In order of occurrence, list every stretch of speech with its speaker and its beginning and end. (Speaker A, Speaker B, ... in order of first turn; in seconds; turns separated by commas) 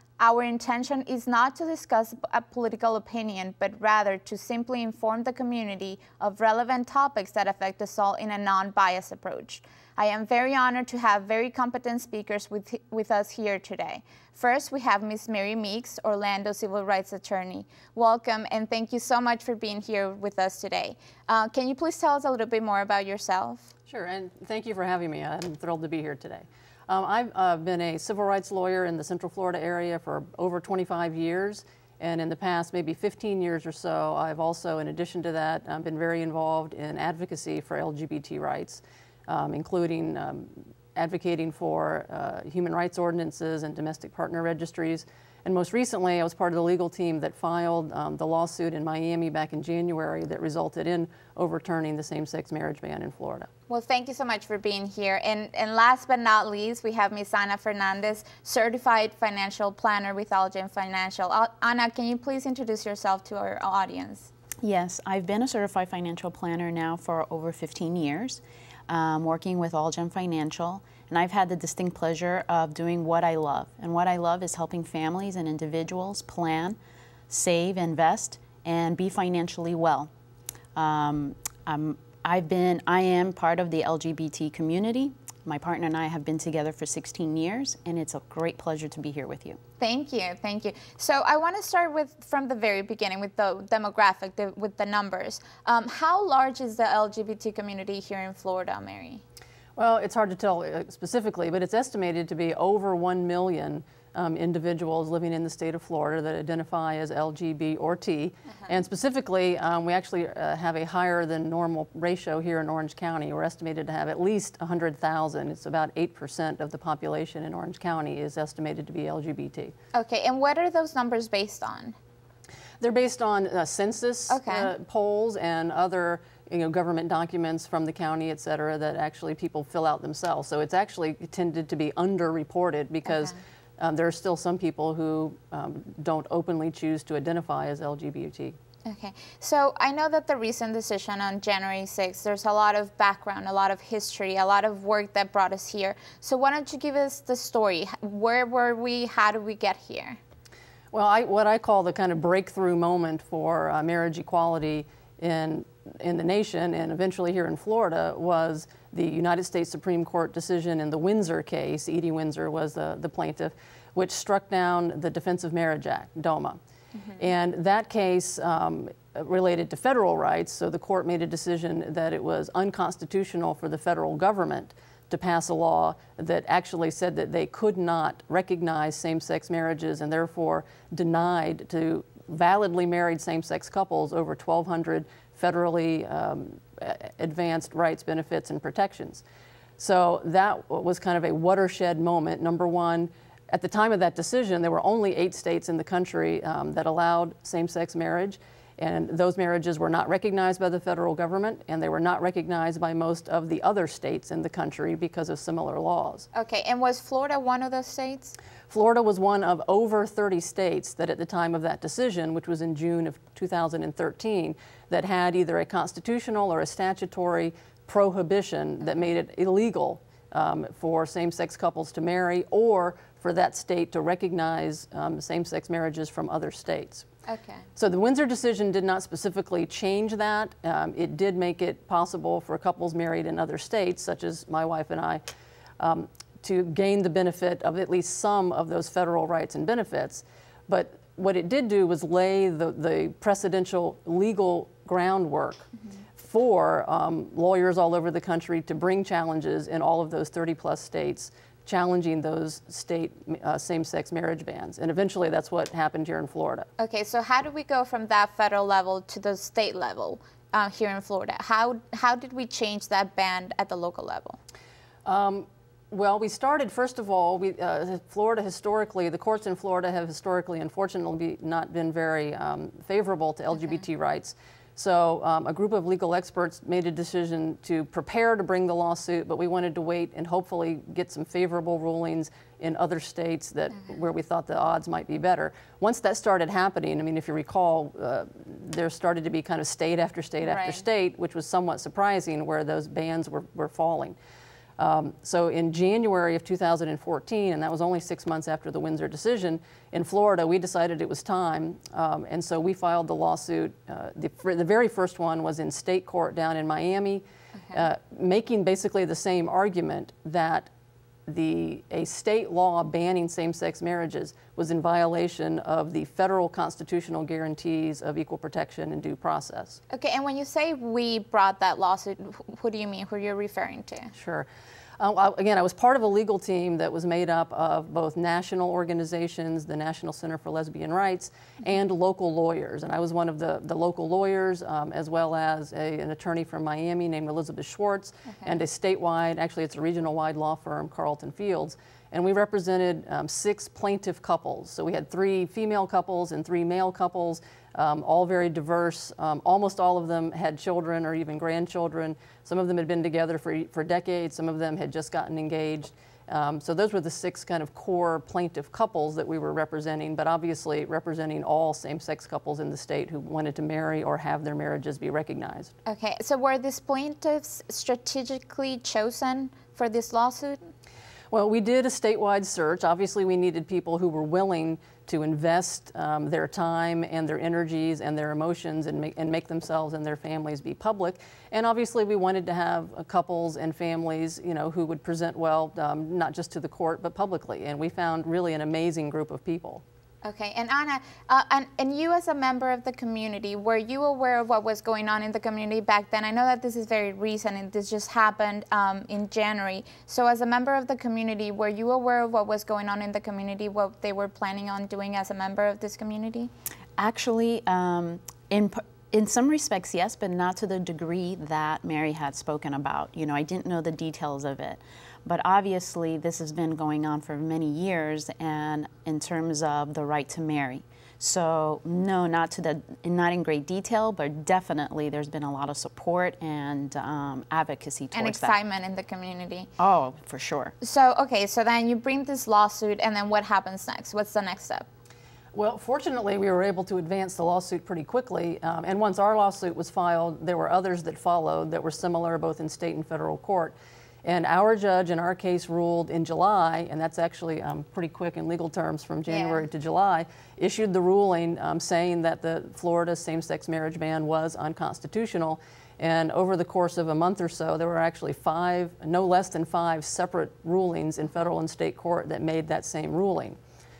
Speaker A: 0.2-23.7, Speaker B: 23.9-53.5, Speaker A: 53.7-64.3, Speaker C: 64.6-76.8, Speaker C: 77.3-80.1, Speaker C: 80.7-89.6, Speaker A: 89.8-99.2, Speaker B: 99.8-119.7, Speaker A: 119.9-122.0, Speaker B: 122.8-138.6, Speaker A: 124.3-124.7, Speaker A: 133.1-133.4, Speaker A: 138.8-150.2, Speaker B: 150.9-166.6, Speaker B: 167.2-189.2, Speaker B: 189.8-206.3, Speaker A: 206.3-208.4, Speaker B: 208.7-227.1, Speaker A: 227.3-227.7, Speaker B: 227.8-235.2, Speaker B: 235.8-256.7, Speaker A: 256.8-264.4, Speaker B: 265.0-294.2, Speaker A: 290.4-290.8, Speaker B: 294.8-310.7, Speaker B: 311.3-319.8, Speaker A: 319.9-324.1, Speaker B: 324.1-324.5, Speaker B: 325.0-365.7, Speaker A: 365.9-370.6, Speaker B: 371.3-389.8, Speaker A: 390.2-406.5, Speaker C: 407.0-428.6, Speaker A: 428.1-429.7, Speaker C: 429.8-430.7, Speaker A: 430.8-434.9, Speaker B: 435.5-463.6, Speaker A: 449.3-449.6